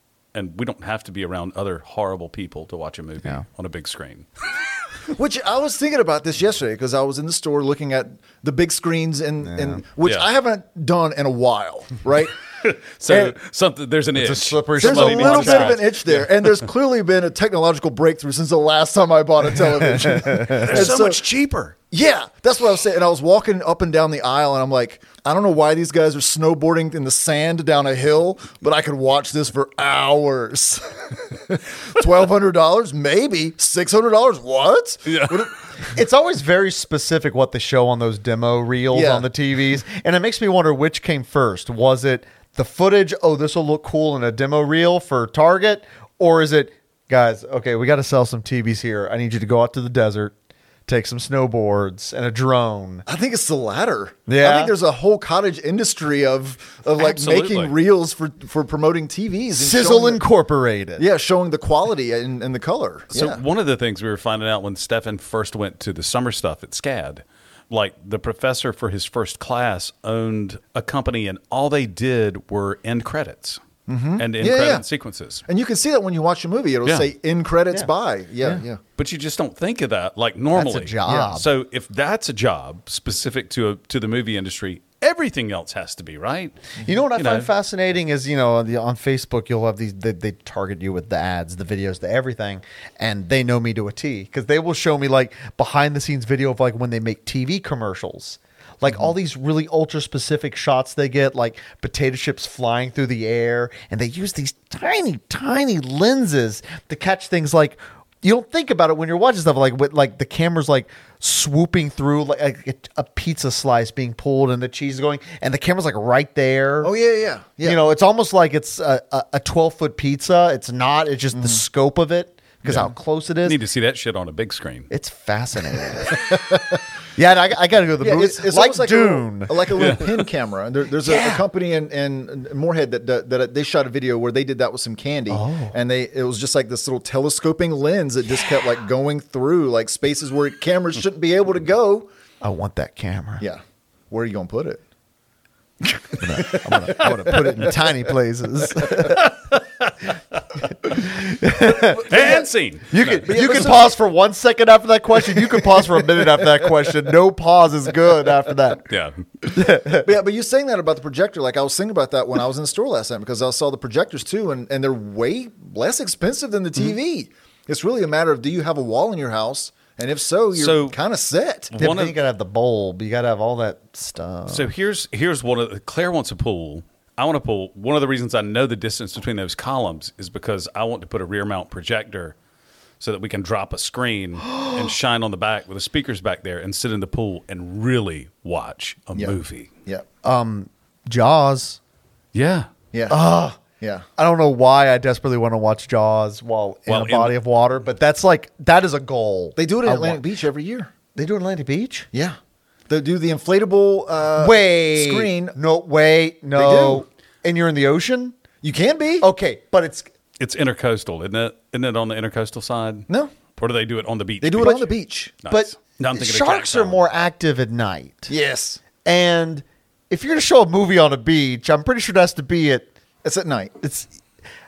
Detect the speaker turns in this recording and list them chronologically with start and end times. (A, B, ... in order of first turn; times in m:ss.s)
0:00.3-0:04.3 A
0:05.1-0:12.3 B
0:09.4-0:09.8 C
0:12.6-0:16.2 A
0:13.1-0:13.3 B
0:14.1-0:15.8 C
0:14.8-0:21.2 B
0:20.2-0:20.6 C
0:20.5-0:21.7 A
0:21.9-0:35.5 B
0:35.9-0:50.3 C
0:38.9-0:39.3 B
0:50.9-0:53.0 C
0:53.0-1:00.2 B
0:54.3-0:54.7 C
0:56.9-0:57.7 A
0:59.6-1:01.1 C
1:01.0-1:03.4 B
1:03.1-1:13.6 A
1:13.9-1:14.8 B
1:14.2-1:15.4 A
1:15.5-1:18.8 B
1:19.0-1:26.6 A
1:20.5-1:21.5 C
1:21.0-1:21.4 B
1:26.8-1:56.9 C
1:27.1-1:27.5 A
1:56.8-1:57.8 B
1:57.6-2:03.6 C
2:01.3-2:01.6 B
2:02.6-2:02.9 B
2:03.4-2:04.9 A
2:04.9-2:06.3 C
2:06.1-2:06.6 B
2:07.2-2:10.0 C
2:08.0-2:22.1 B
2:09.8-2:10.2 A
2:11.0-2:11.4 C
2:15.3-2:15.7 C
2:22.4-2:23.4 C
2:23.4-2:24.8 B
2:26.2-2:29.3 C
2:26.6-2:27.5 B
2:27.0-2:27.3 A
2:28.8-2:30.6 A
2:30.9-2:32.4 C
2:31.6-2:33.3 A
2:32.1-2:32.5 B
2:32.9-2:38.9 C
2:33.2-2:33.9 B
2:38.9-2:39.1 A
2:39.4-2:40.1 C
2:40.0-2:51.7 B
2:50.5-2:51.0 A
2:51.7-2:52.2 A
2:51.8-2:54.7 C
2:54.5-3:02.4 A
3:03.0-3:09.7 A
3:09.1-3:10.0 B
3:10.2-3:11.8 C
3:12.3-3:12.7 A
3:12.9-3:13.2 B
3:13.1-3:13.6 C
3:14.2-3:20.2 C
3:16.9-3:17.4 A
3:19.6-3:20.9 B
3:21.1-3:22.1 C
3:22.9-3:25.6 B
3:24.4-3:28.4 C
3:26.5-3:27.0 B
3:28.6-3:29.3 B
3:29.2-3:30.1 C
3:30.4-3:34.9 A
3:34.4-3:35.4 B
3:35.4-3:37.0 A
3:35.5-3:38.3 C
3:38.3-3:38.8 B
3:39.0-3:42.9 C
3:43.2-3:43.7 B
3:43.8-3:44.1 C